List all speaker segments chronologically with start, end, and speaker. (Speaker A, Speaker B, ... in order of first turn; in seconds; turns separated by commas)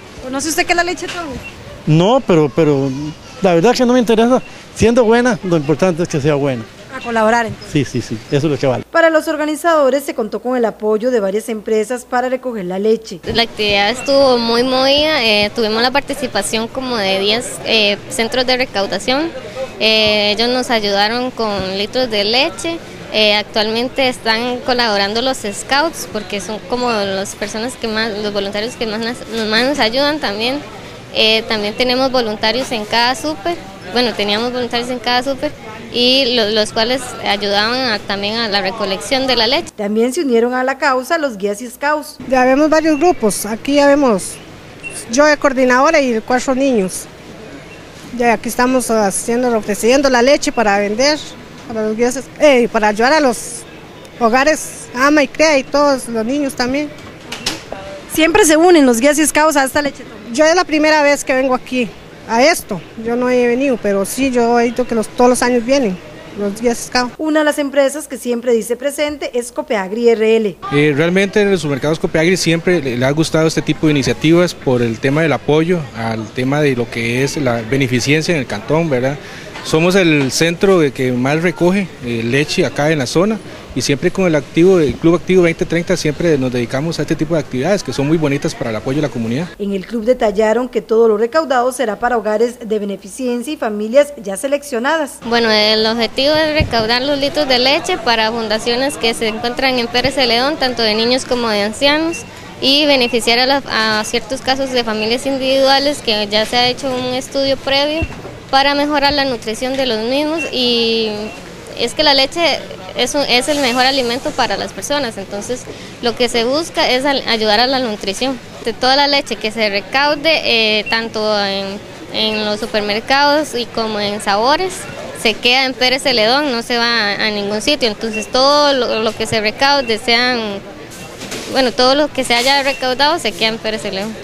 Speaker A: 0.2-1.4, Speaker B: 1.9-6.7, Speaker A: 6.9-7.7, Speaker B: 7.7-8.8, Speaker A: 8.9-13.2, Speaker C: 13.2-39.7, Speaker A: 39.8-42.2, Speaker D: 42.3-44.4, Speaker D: 45.1-47.1, Speaker D: 48.1-53.6, Speaker D: 54.2-56.9, Speaker A: 58.1-60.2, Speaker D: 60.3-67.1, Speaker A: 67.2-70.6, Speaker E: 70.7-89.5, Speaker A: 89.6-95.2, Speaker C: 95.2-130.6, Speaker C: 131.5-134.2